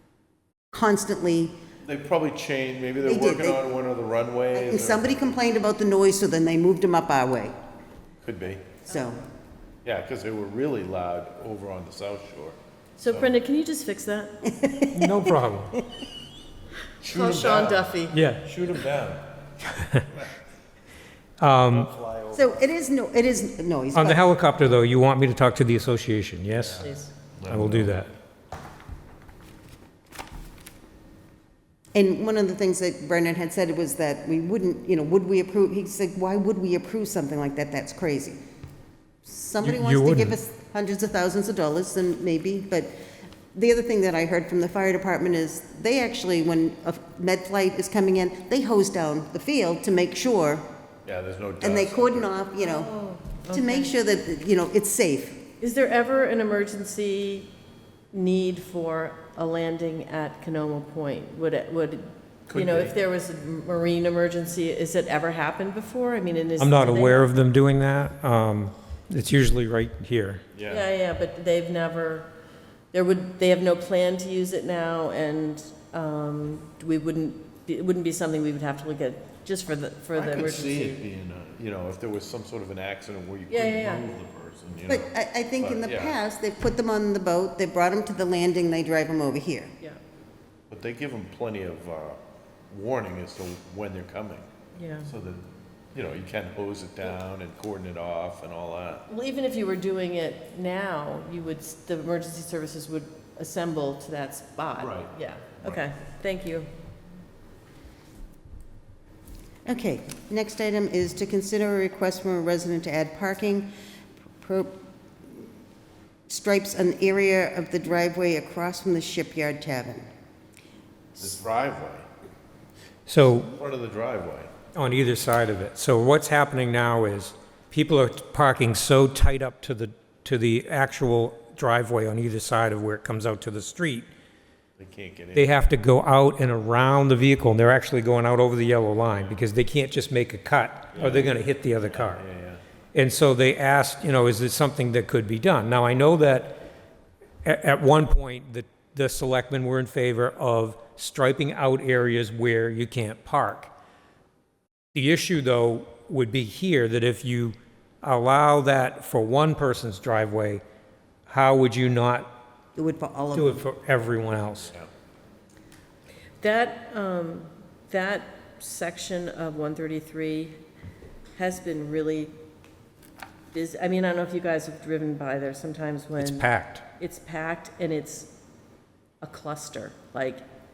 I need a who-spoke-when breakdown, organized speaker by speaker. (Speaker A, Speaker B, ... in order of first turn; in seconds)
Speaker A: 0.7-1.5, 3.0-3.7, 4.5-7.5, 8.8-9.2, 14.4-15.3, 22.3-24.3, 31.9-38.4, 39.2-42.9, 43.5-50.6, 51.6-52.9, 53.5-55.4, 84.9-89.7, 109.7-113.7, 114.4-114.8, 116.3-120.0, 162.8-163.6
Speaker B: 1.8-5.3, 8.2-8.8, 9.8-13.3, 17.0-19.4, 21.7-22.6, 27.4-27.9, 51.0-52.3, 62.5-63.0, 70.5-70.9, 80.1-86.2, 90.7-92.2, 92.7-94.5, 95.0-99.0, 104.8-105.8, 121.2-122.0, 123.6-124.5, 134.8-135.5, 140.9-142.6
Speaker C: 13.0-14.3, 17.0-18.2, 26.8-27.1, 52.6-53.9, 55.6-57.5, 58.1-67.2, 70.7-72.3, 72.9-81.0, 83.5-84.0, 94.7-95.1, 99.1-106.7, 166.4-170.6, 171.4-172.3, 173.5-178.3, 179.2-180.4
Speaker D: 14.9-15.7, 18.1-18.4, 19.6-20.0, 21.4-21.9, 23.9-26.9, 27.5-28.1, 39.6-40.4, 66.6-70.4, 123.1-123.5, 124.7-134.1, 135.3-142.2, 142.9-146.6, 147.4-153.7, 154.9-160.6, 161.3-162.3, 163.3-164.7, 176.2-176.8